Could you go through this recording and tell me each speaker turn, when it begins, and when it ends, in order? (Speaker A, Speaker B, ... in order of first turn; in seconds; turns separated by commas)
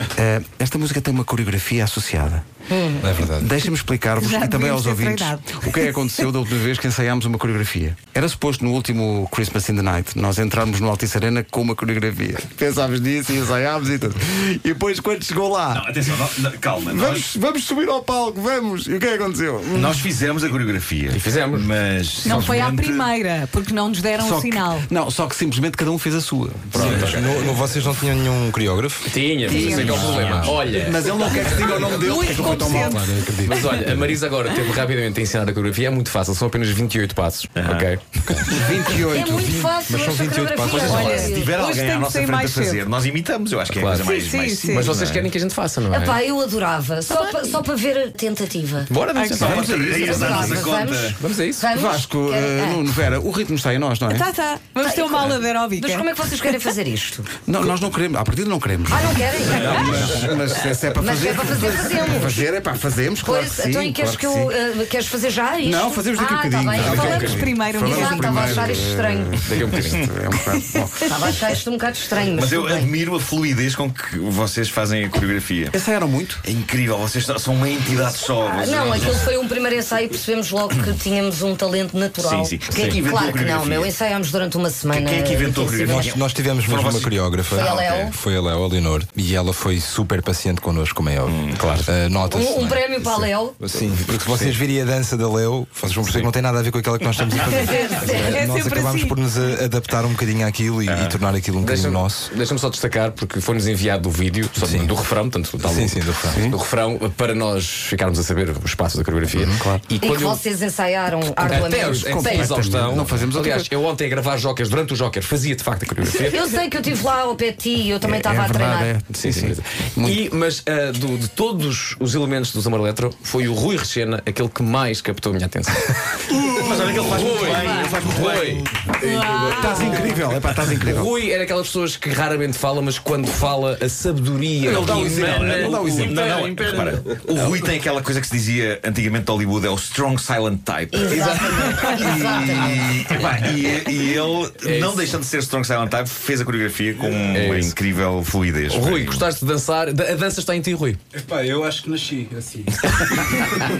Speaker A: 0.1-2.5, Speaker B: 2.7-3.1, Speaker C: 3.0-3.5, Speaker A: 3.4-15.9, Speaker D: 4.2-6.1, Speaker E: 15.7-17.3, Speaker A: 16.9-20.1, Speaker E: 19.7-23.1, Speaker F: 21.1-21.7, Speaker D: 22.2-24.9, Speaker A: 24.1-26.8, Speaker F: 26.7-27.5, Speaker C: 26.7-30.6, Speaker F: 29.1-31.0, Speaker A: 29.4-33.6, Speaker D: 31.1-33.4, Speaker F: 33.4-38.9, Speaker E: 37.6-37.9, Speaker A: 38.4-41.2, Speaker B: 39.0-41.5, Speaker E: 40.6-45.3, Speaker D: 40.9-42.9, Speaker F: 43.7-46.2, Speaker D: 44.0-44.9, Speaker B: 45.9-48.9, Speaker F: 47.1-47.6, Speaker F: 48.9-49.6, Speaker D: 49.1-49.5, Speaker A: 49.3-50.6, Speaker E: 49.4-51.2, Speaker B: 49.9-52.8, Speaker F: 51.1-51.6, Speaker A: 51.7-54.3, Speaker D: 54.1-56.1, Speaker B: 54.8-57.3, Speaker A: 57.5-64.5, Speaker B: 58.9-60.0, Speaker E: 59.5-60.2, Speaker B: 60.9-62.4, Speaker B: 63.2-69.4, Speaker A: 65.6-71.1, Speaker F: 66.8-67.5, Speaker D: 66.9-68.7, Speaker F: 69.4-70.1, Speaker B: 71.0-72.9, Speaker E: 72.3-75.8, Speaker A: 75.7-76.4, Speaker E: 76.4-79.3, Speaker B: 78.4-86.2, Speaker E: 82.2-83.9, Speaker E: 84.9-88.1, Speaker C: 85.8-102.3, Speaker B: 87.5-88.2, Speaker E: 91.2-91.6, Speaker F: 91.5-91.9, Speaker B: 92.3-93.5, Speaker F: 93.7-94.6, Speaker F: 96.0-96.3, Speaker B: 97.6-98.3, Speaker D: 97.7-99.2, Speaker E: 100.9-101.2, Speaker F: 101.6-110.4, Speaker C: 104.6-104.9, Speaker C: 105.6-106.4, Speaker A: 106.3-106.6, Speaker A: 109.3-109.8, Speaker B: 110.0-112.5, Speaker A: 111.4-113.7, Speaker F: 111.5-116.5, Speaker B: 116.2-118.9, Speaker A: 118.0-120.2, Speaker F: 119.1-126.1, Speaker E: 126.4-128.9, Speaker F: 126.9-128.7, Speaker D: 127.6-128.0, Speaker A: 127.7-131.1, Speaker D: 129.0-130.2, Speaker F: 129.4-130.0, Speaker F: 130.8-136.8, Speaker A: 134.6-136.3, Speaker E: 135.2-149.2, Speaker G: 136.4-137.0, Speaker B: 140.9-143.0, Speaker F: 141.1-142.1, Speaker F: 144.6-145.2, Speaker F: 147.3-147.8, Speaker F: 148.7-151.0, Speaker G: 151.1-153.6